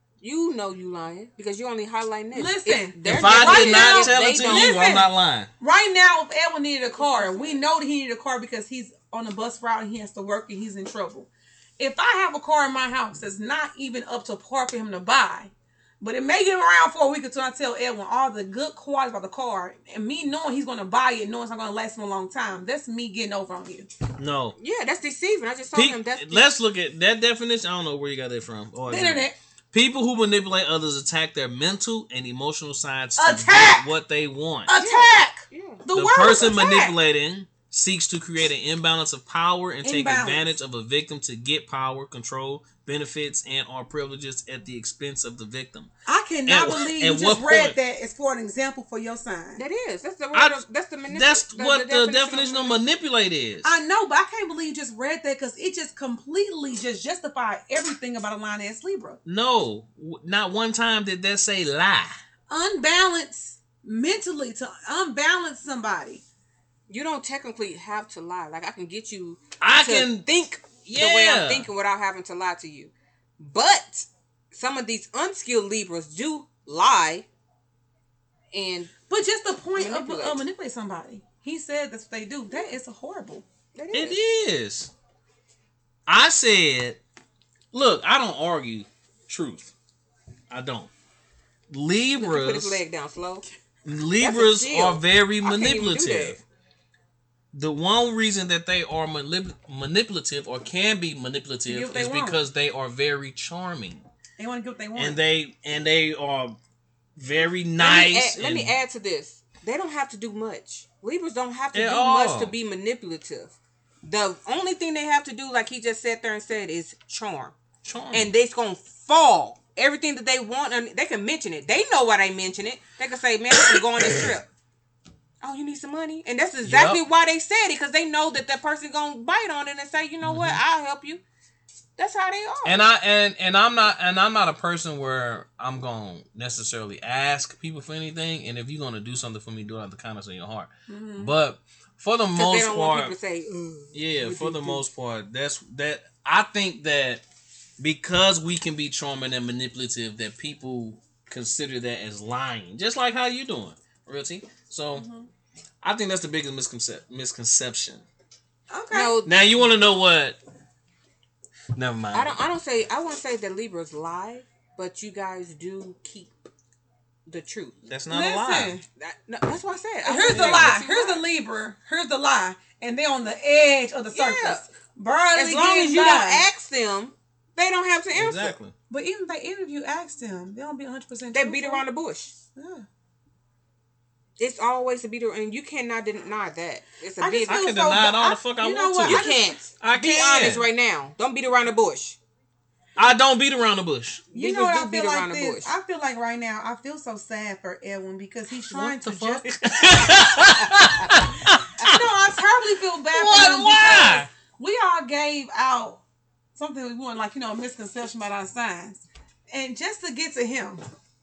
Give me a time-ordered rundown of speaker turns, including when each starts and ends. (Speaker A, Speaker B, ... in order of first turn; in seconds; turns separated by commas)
Speaker A: 0.2-4.8, Speaker B: 2.3-23.9, Speaker C: 3.0-5.5, Speaker A: 6.9-7.6, Speaker C: 24.2-24.5, Speaker A: 24.6-26.5, Speaker C: 25.7-34.7, Speaker B: 28.9-29.4, Speaker B: 33.2-33.9, Speaker B: 34.7-37.0, Speaker A: 34.7-35.8, Speaker C: 35.9-45.9, Speaker B: 39.8-40.5, Speaker B: 46.0-49.6, Speaker C: 46.5-47.8, Speaker A: 49.6-52.8, Speaker C: 50.3-53.7, Speaker B: 53.6-59.2, Speaker C: 59.2-62.2, Speaker B: 62.5-66.2, Speaker A: 66.9-77.3, Speaker C: 69.6-70.3, Speaker C: 70.8-71.7, Speaker A: 78.5-78.9, Speaker B: 79.1-83.5, Speaker A: 79.8-80.4, Speaker A: 83.7-84.2, Speaker C: 83.9-84.9, Speaker C: 86.1-87.0, Speaker C: 87.7-89.7, Speaker C: 90.5-90.9, Speaker C: 91.7-92.8, Speaker A: 92.2-93.5, Speaker C: 93.8-96.4, Speaker A: 94.2-96.4, Speaker C: 97.5-104.0, Speaker B: 101.7-102.4, Speaker B: 104.4-105.2, Speaker C: 105.0-106.5, Speaker C: 107.2-108.7, Speaker A: 107.8-117.5, Speaker C: 111.7-112.5, Speaker C: 117.8-118.3, Speaker A: 118.1-124.5, Speaker C: 123.7-124.3, Speaker A: 125.4-131.2, Speaker C: 126.6-127.0, Speaker C: 130.2-130.6, Speaker A: 132.0-132.8, Speaker C: 132.6-143.1, Speaker B: 140.9-141.3, Speaker A: 142.3-144.8, Speaker C: 143.9-147.2, Speaker C: 147.8-155.1, Speaker B: 154.9-155.3, Speaker C: 155.8-158.0, Speaker B: 158.7-159.2, Speaker A: 158.9-159.6, Speaker C: 159.2-160.4, Speaker C: 161.7-162.4, Speaker A: 162.1-166.3, Speaker A: 167.3-167.8, Speaker C: 167.9-168.8, Speaker B: 168.1-168.8, Speaker A: 169.0-171.2, Speaker B: 170.0-176.5, Speaker C: 170.3-170.7, Speaker A: 174.1-174.6, Speaker A: 175.3-178.5, Speaker C: 178.1-178.7, Speaker B: 178.9-181.8, Speaker A: 181.3-182.3, Speaker B: 182.6-182.8, Speaker A: 184.4-187.6, Speaker B: 187.2-189.5, Speaker C: 187.5-190.7, Speaker A: 189.0-192.2, Speaker C: 193.0-194.3, Speaker A: 194.3-195.7, Speaker B: 194.3-199.5, Speaker C: 198.6-202.0, Speaker B: 201.8-206.0, Speaker C: 203.1-204.3, Speaker B: 206.5-210.8